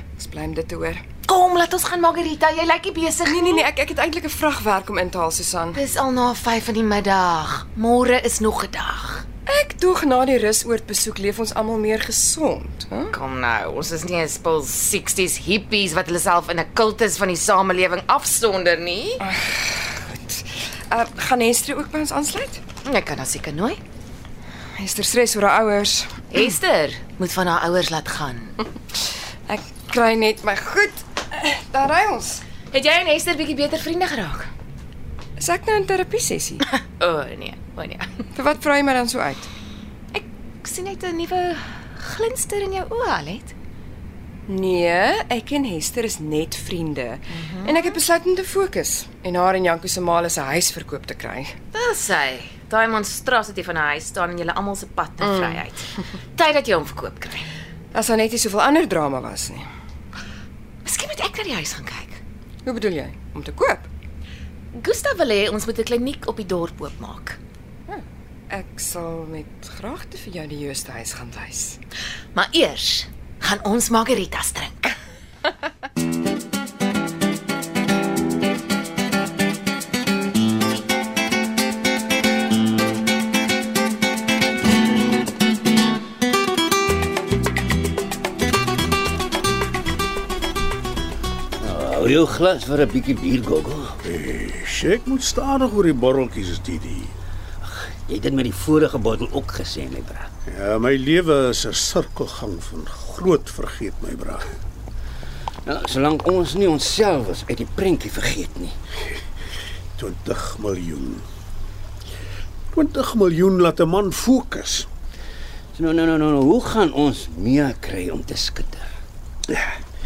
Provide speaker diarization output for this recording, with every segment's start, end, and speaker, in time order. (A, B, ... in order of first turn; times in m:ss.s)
0:00.2-0:01.0 A
0:01.3-0:03.7 B
0:03.2-0:05.8 A
0:05.7-0:09.2 B
0:09.5-0:13.2 A
0:13.1-0:19.2 B
0:19.2-0:22.6 A
0:22.8-0:23.8 B
0:24.8-0:26.3 A
0:26.3-0:28.6 B
0:29.5-0:32.4 A
0:32.7-0:34.5 B
0:35.4-0:36.6 A
0:36.7-0:38.3 B
0:38.3-0:39.5 A
0:40.1-0:43.6 B
0:44.5-0:51.5 A
0:47.3-0:47.9 B
0:51.7-0:57.5 B
0:55.2-0:55.6 A
0:57.9-0:59.7 A
1:00.8-1:02.2 B
1:02.6-1:03.9 A
1:04.7-1:07.4 B
1:07.9-1:11.8 A
1:12.3-1:15.0 B
1:31.6-1:34.0 C
1:34.0-1:37.1 D
1:37.6-1:40.3 C
1:40.5-1:44.5 D
1:45.7-1:48.8 C
1:50.0-1:51.2 D
1:52.7-1:54.9 D
1:55.7-1:58.9 C